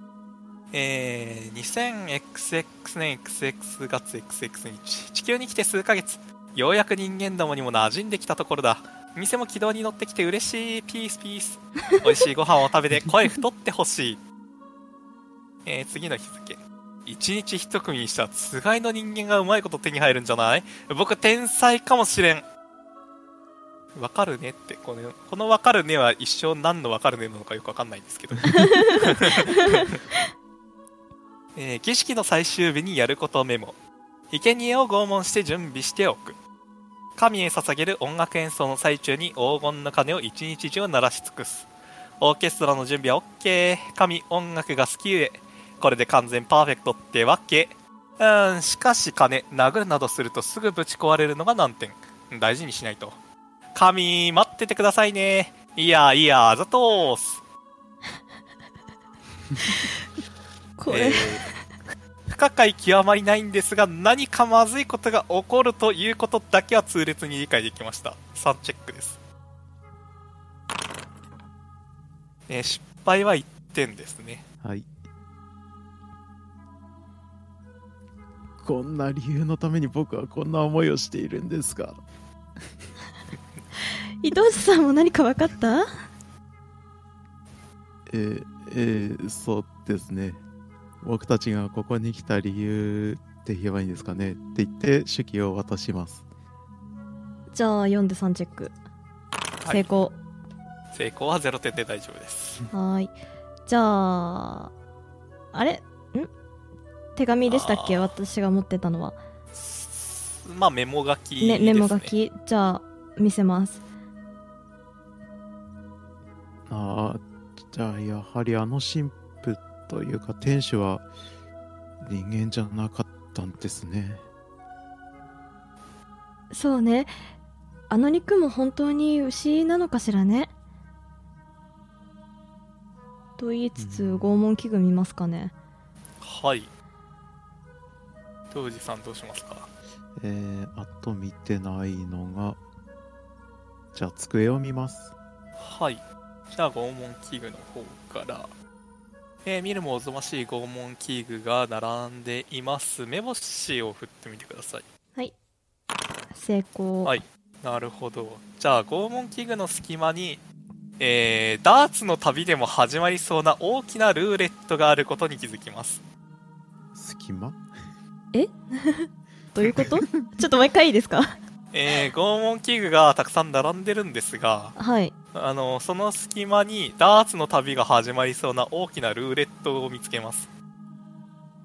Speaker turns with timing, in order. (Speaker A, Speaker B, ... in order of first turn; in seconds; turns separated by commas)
Speaker A: 0.7-14.2, Speaker A: 15.6-22.4, Speaker A: 23.9-30.0, Speaker B: 28.5-29.9, Speaker A: 31.5-33.8, Speaker A: 34.3-36.4, Speaker A: 37.1-41.7, Speaker A: 42.2-53.2, Speaker A: 53.7-57.4, Speaker B: 60.8-61.5, Speaker A: 60.9-61.5, Speaker A: 62.3-69.2, Speaker A: 72.5-74.4, Speaker C: 74.6-74.9, Speaker C: 78.6-82.0, Speaker B: 84.2-85.9, Speaker C: 88.1-90.4, Speaker C: 91.0-96.2, Speaker B: 97.5-98.7, Speaker A: 99.6-99.9, Speaker B: 99.7-100.2, Speaker A: 100.9-102.6, Speaker B: 102.7-103.1, Speaker B: 103.7-104.7, Speaker B: 105.5-106.3, Speaker B: 107.2-109.2, Speaker A: 107.5-108.1, Speaker A: 109.5-112.1, Speaker B: 111.4-113.8, Speaker C: 116.7-121.1, Speaker C: 122.0-124.2, Speaker B: 126.5-127.1, Speaker B: 127.9-130.5, Speaker B: 133.4-135.5, Speaker C: 133.8-134.4, Speaker A: 136.2-136.7, Speaker A: 138.5-139.7, Speaker C: 140.2-142.6, Speaker C: 143.9-145.1, Speaker A: 145.6-148.5, Speaker A: 149.4-154.8, Speaker B: 156.3-157.2, Speaker A: 157.0-160.4, Speaker A: 161.0-166.0, Speaker C: 166.9-167.6, Speaker B: 168.3-171.4, Speaker A: 171.7-174.8, Speaker B: 174.8-175.1, Speaker A: 175.3-180.5